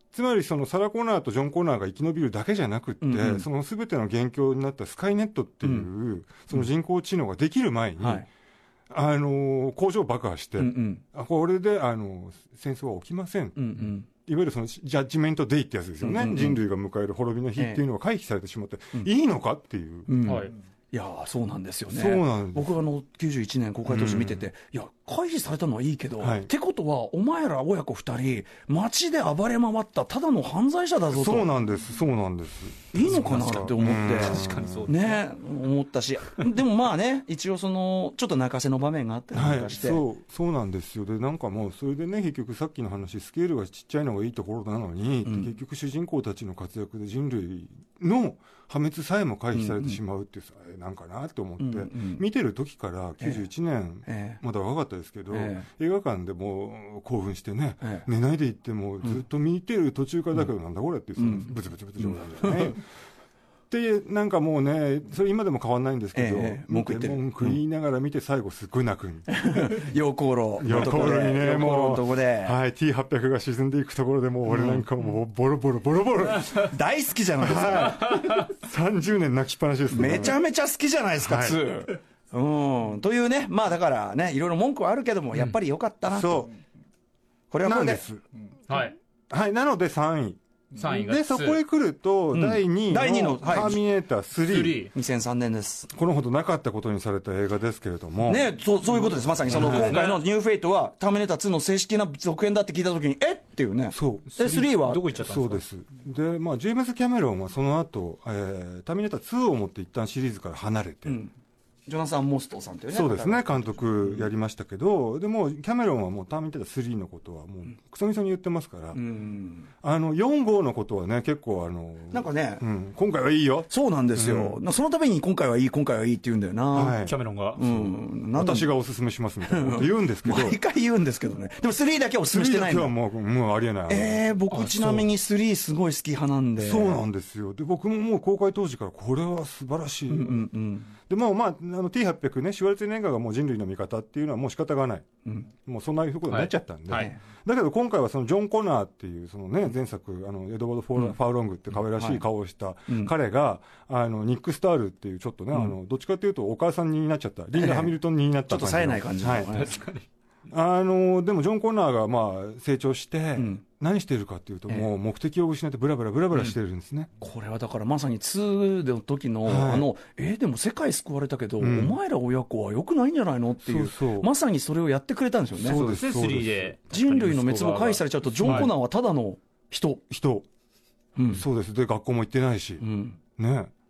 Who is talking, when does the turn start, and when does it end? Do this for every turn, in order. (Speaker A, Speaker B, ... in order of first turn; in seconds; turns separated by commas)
Speaker A: 0.1-8.2, Speaker B: 3.0-3.5, Speaker B: 5.6-5.9, Speaker B: 8.0-8.3, Speaker A: 8.9-20.1, Speaker B: 10.6-11.0, Speaker B: 13.6-14.1, Speaker B: 16.0-16.6, Speaker B: 17.6-17.8, Speaker B: 20.1-31.5, Speaker C: 20.2-20.5, Speaker A: 21.9-22.7, Speaker A: 23.9-24.4, Speaker A: 26.2-26.5, Speaker A: 31.1-34.9, Speaker B: 32.9-40.0, Speaker C: 33.1-35.2, Speaker A: 39.3-62.8, Speaker B: 45.2-45.5, Speaker B: 49.5-50.0, Speaker B: 51.6-52.2, Speaker B: 54.0-54.4, Speaker B: 55.3-55.6, Speaker B: 61.2-62.8, Speaker A: 63.7-69.4, Speaker B: 66.1-67.6, Speaker B: 69.3-72.6, Speaker A: 70.6-76.7, Speaker B: 74.5-74.8, Speaker B: 76.5-78.3, Speaker A: 77.4-80.4, Speaker C: 78.1-78.4, Speaker B: 79.9-86.5, Speaker A: 81.2-81.6, Speaker A: 86.1-86.5, Speaker B: 87.5-88.0, Speaker A: 87.6-88.2, Speaker C: 88.7-89.0, Speaker A: 89.3-94.9, Speaker C: 90.7-91.6, Speaker B: 92.3-93.8, Speaker C: 94.4-94.9, Speaker B: 94.9-95.9, Speaker A: 95.9-98.5, Speaker B: 98.3-105.1, Speaker A: 99.5-100.0, Speaker C: 99.5-100.2, Speaker A: 103.9-104.6, Speaker C: 104.3-105.6, Speaker A: 105.1-111.2, Speaker B: 111.0-111.3, Speaker B: 111.9-114.3, Speaker A: 112.9-119.0, Speaker B: 118.9-119.7, Speaker A: 119.8-124.6, Speaker B: 122.1-122.6, Speaker B: 123.7-127.0, Speaker A: 126.7-127.2, Speaker C: 127.0-127.6, Speaker B: 127.5-128.7, Speaker A: 128.3-130.6, Speaker B: 129.4-132.9, Speaker A: 132.3-135.1, Speaker B: 133.9-137.0, Speaker A: 136.6-140.5, Speaker B: 140.1-140.9, Speaker A: 141.1-145.1, Speaker A: 145.6-159.7, Speaker C: 146.3-147.1, Speaker B: 151.9-152.2, Speaker B: 157.5-157.9, Speaker B: 158.5-159.8, Speaker C: 159.5-160.0, Speaker A: 160.5-167.1, Speaker B: 163.3-163.6, Speaker B: 167.2-175.8, Speaker A: 169.4-169.9, Speaker A: 171.6-171.9, Speaker A: 173.6-174.3, Speaker A: 175.6-176.7, Speaker C: 175.7-178.7, Speaker B: 176.9-180.0, Speaker A: 180.1-180.4, Speaker B: 181.2-181.4, Speaker A: 181.3-182.8, Speaker B: 182.8-183.2, Speaker A: 183.4-183.7